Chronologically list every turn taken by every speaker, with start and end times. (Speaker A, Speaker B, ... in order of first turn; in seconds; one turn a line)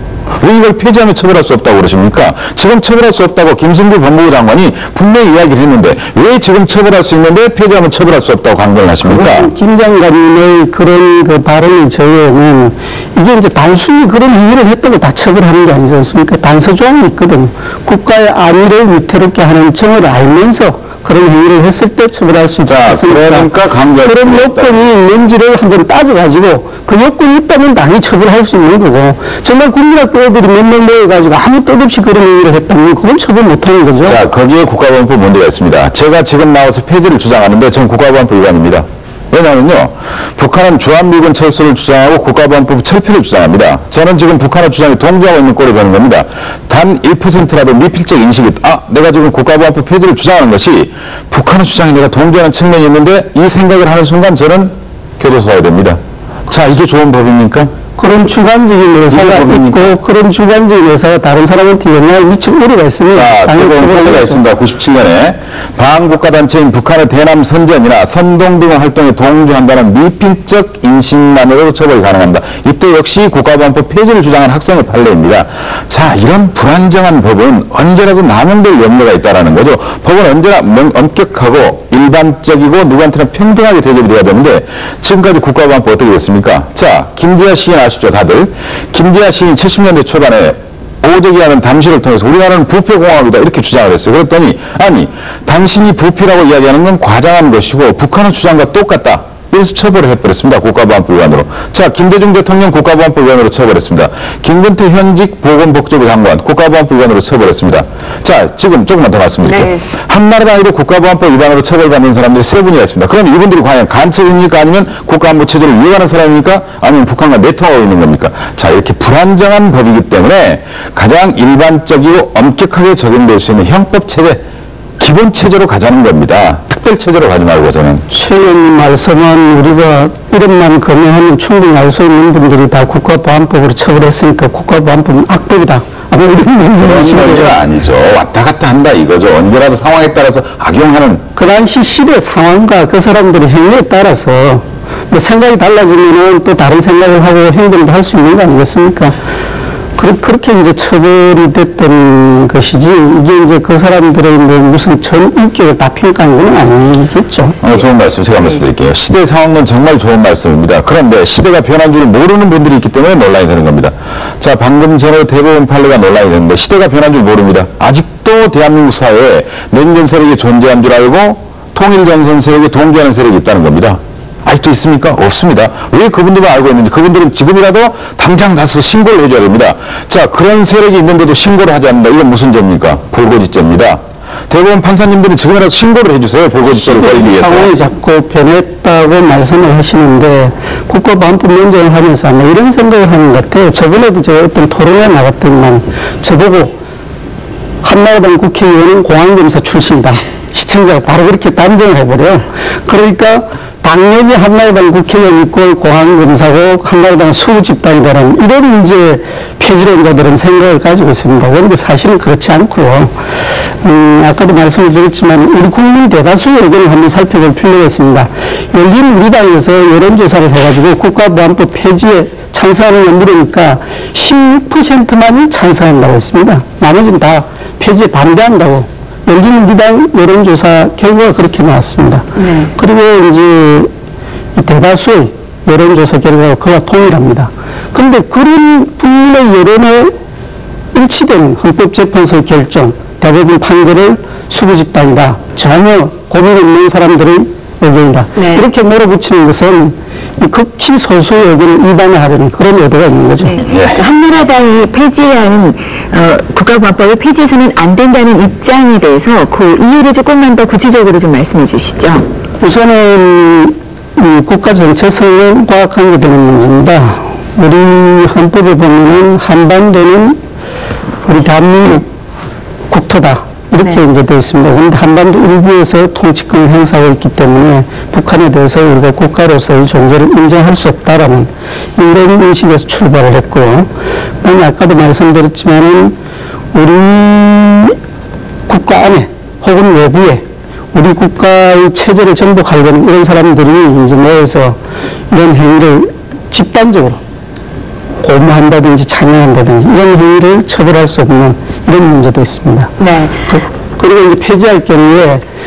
Speaker A: 0.4-9.5
Speaker B: 9.0-34.2
Speaker A: 22.6-24.9
Speaker A: 34.0-57.7
Speaker B: 58.0-64.4
Speaker A: 59.1-60.0
Speaker A: 63.1-124.4
Speaker C: 109.5-109.8
Speaker A: 125.0-128.1
Speaker B: 128.1-137.6
Speaker A: 136.8-141.2
Speaker B: 141.4-149.2
Speaker B: 150.0-157.6
Speaker A: 157.6-187.7
Speaker B: 186.7-196.8
Speaker B: 197.8-213.1
Speaker B: 213.8-233.9
Speaker C: 232.4-232.7
Speaker B: 234.6-240.1
Speaker B: 240.9-253.6
Speaker C: 248.4-248.6
Speaker C: 253.4-262.3
Speaker A: 253.6-254.0
Speaker B: 262.6-270.4
Speaker B: 271.2-272.1
Speaker B: 272.9-283.9
Speaker B: 284.4-286.2
Speaker B: 286.7-288.0
Speaker B: 288.7-294.8
Speaker B: 295.3-297.2
Speaker B: 298.2-302.9
Speaker C: 303.0-303.4
Speaker B: 303.5-305.4